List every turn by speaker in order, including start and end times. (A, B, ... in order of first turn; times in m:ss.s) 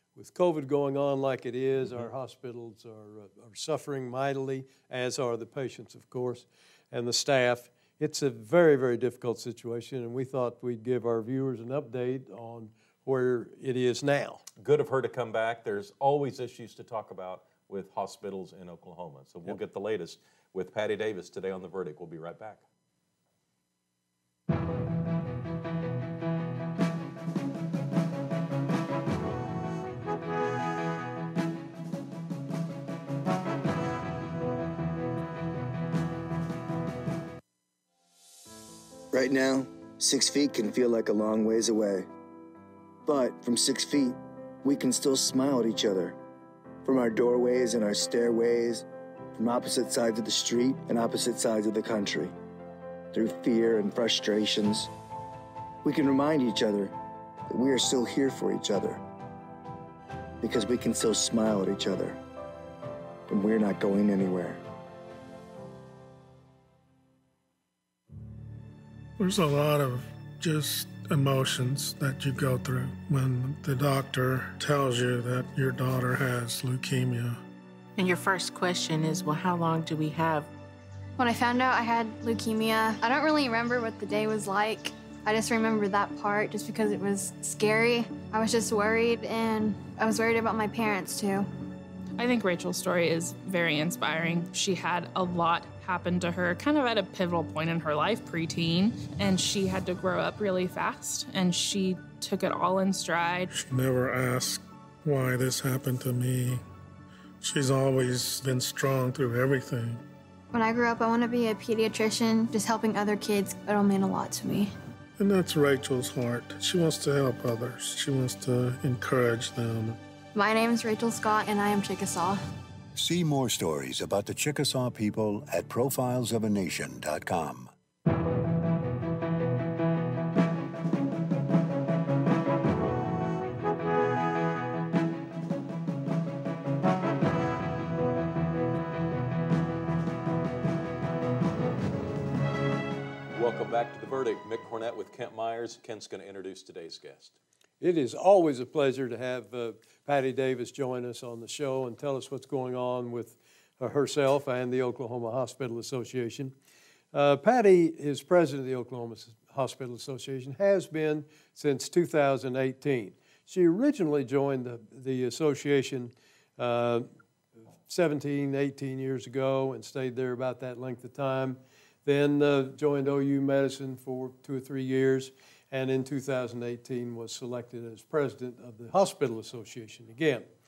0:00.2-0:14.4 A
0:14.6-0:22.6 B
0:39.1-0:42.1 C
0:43.0-0:46.2 C
0:46.8-0:48.8 C
0:49.4-0:52.3 C
0:53.1-0:54.9 C
0:55.8-0:56.9 C
0:57.5-0:59.0 C
1:00.4-1:02.2 C
1:03.3-1:04.6 C
1:09.2-1:17.4 D
1:18.0-1:20.5 E
1:21.2-1:31.5 F
1:32.2-1:43.5 G
1:43.5-1:46.6 D
1:47.4-1:50.0 D
1:50.5-1:54.7 F
1:55.2-2:00.0 D
2:00.3-2:02.4 F
2:03.0-2:07.7 H
2:23.3-2:27.4 B
2:27.8-2:36.5 A
2:37.1-2:47.1 A
2:47.8-3:00.5 A